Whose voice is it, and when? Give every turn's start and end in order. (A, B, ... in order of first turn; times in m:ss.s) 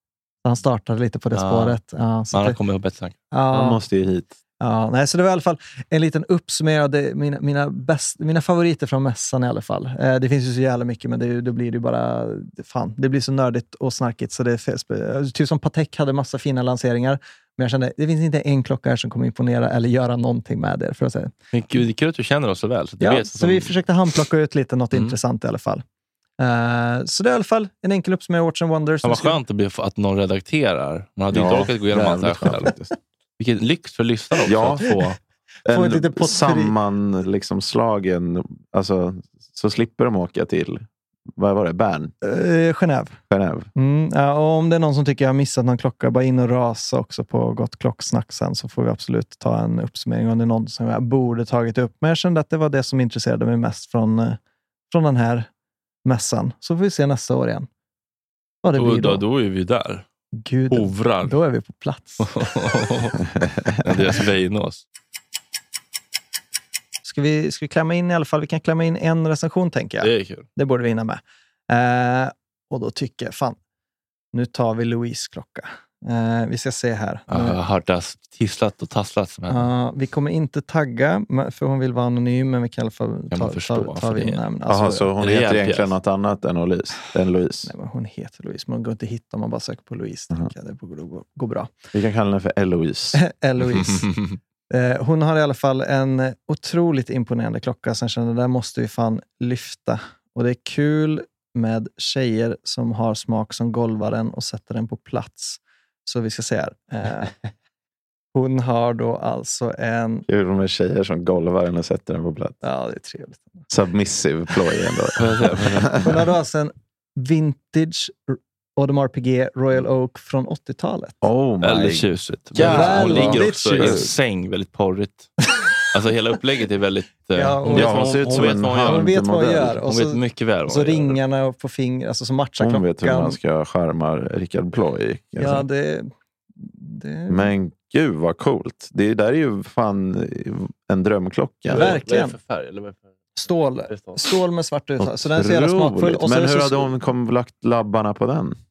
0:00.4-0:02.6 A
0:01.3-0:01.8 B
0:02.3-0:03.2 B
0:03.3-0:03.8 A
0:03.5-0:04.4 C
0:04.6-0:21.3 A
0:21.5-0:23.7 B
0:23.0-0:25.8 A
0:24.9-0:25.2 B
0:26.4-0:29.4 A
0:29.0-0:32.7 B
0:31.3-0:32.9 C
0:33.4-0:35.2 B
0:34.4-0:34.9 C
0:35.6-0:42.1 C
0:35.7-0:36.7 A
0:42.2-0:43.2 A
0:43.3-0:43.7 C
0:43.7-0:54.4 A
0:54.9-0:55.5 A
0:56.0-0:57.7 A
0:58.6-0:59.2 A
0:58.7-1:00.0 B
1:00.3-1:02.3 A
1:00.7-1:01.4 B
1:02.2-1:03.2 B
1:03.8-1:04.8 B
1:07.0-1:13.6 A
1:10.0-1:10.5 B
1:14.3-1:17.6 A
1:17.3-1:19.7 B
1:19.5-1:25.1 A
1:23.3-1:24.4 B
1:24.7-1:27.7 C
1:25.2-1:25.9 B
1:27.7-1:31.7 A
1:31.9-1:33.2 C
1:33.1-1:34.2 A
1:34.7-1:47.3 A
1:48.3-1:50.2 A
1:50.3-1:52.6 C
1:52.6-1:53.6 A
1:53.7-1:56.2 C
1:55.2-1:56.1 B
1:56.0-2:01.2 A
2:01.2-2:04.1 C
2:01.6-2:05.3 B
2:02.6-2:04.1 A
2:05.9-2:09.1 B
2:07.3-2:13.4 A
2:07.7-2:09.8 C
2:09.9-2:11.2 B
2:12.6-2:15.6 C
2:15.4-2:17.5 A
2:17.3-2:22.0 C
2:21.7-2:22.3 A
2:21.7-2:23.0 B
2:23.4-2:26.9 A
2:23.9-2:24.2 B
2:25.0-2:28.6 C